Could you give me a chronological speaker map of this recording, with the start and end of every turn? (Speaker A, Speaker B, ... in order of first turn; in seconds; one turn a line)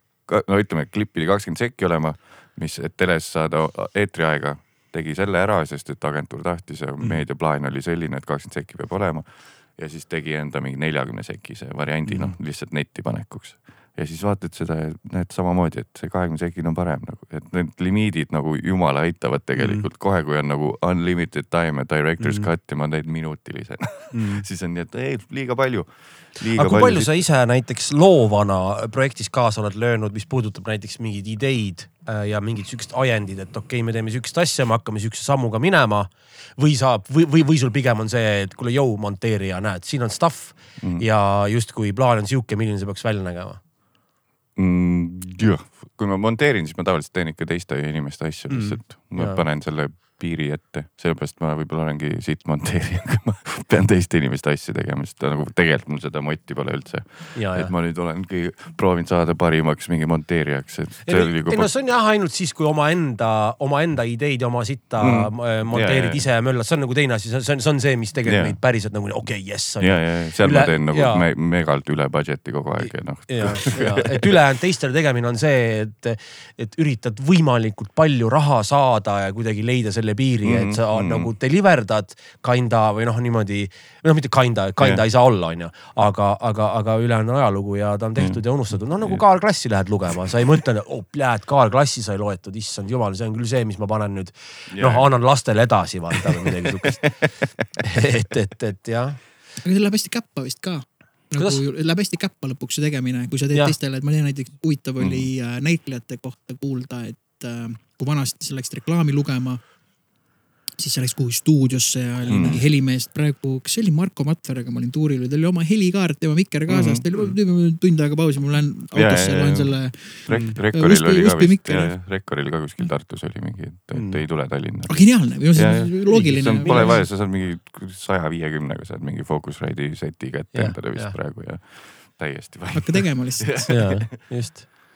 Speaker A: 0.3-27.2
Speaker B: 12.1-12.3
Speaker B: 19.6-19.9
Speaker B: 22.2-22.5
Speaker B: 24.1-24.4
Speaker B: 26.5-43.6
Speaker A: 40.8-41.1
Speaker A: 44.6-61.7
Speaker B: 48.5-49.4
Speaker B: 57.4-57.7
Speaker B: 61.0-71.2
Speaker A: 65.0-66.3
Speaker A: 68.3-68.6
Speaker A: 69.8-74.3
Speaker B: 72.8-97.0
Speaker A: 80.4-81.3
Speaker A: 88.2-88.4
Speaker A: 94.7-95.1
Speaker A: 96.2-97.6
Speaker B: 97.8-99.2
Speaker C: 99.6-109.6
Speaker B: 101.4-101.6
Speaker A: 105.0-105.3
Speaker C: 110.8-122.0
Speaker A: 112.3-112.6
Speaker A: 116.7-117.0
Speaker A: 118.9-119.8
Speaker A: 120.3-133.9
Speaker B: 120.3-120.6
Speaker B: 123.9-124.2
Speaker C: 124.9-127.0
Speaker B: 126.1-127.0
Speaker B: 130.5-131.2
Speaker C: 132.7-133.8
Speaker B: 133.7-134.7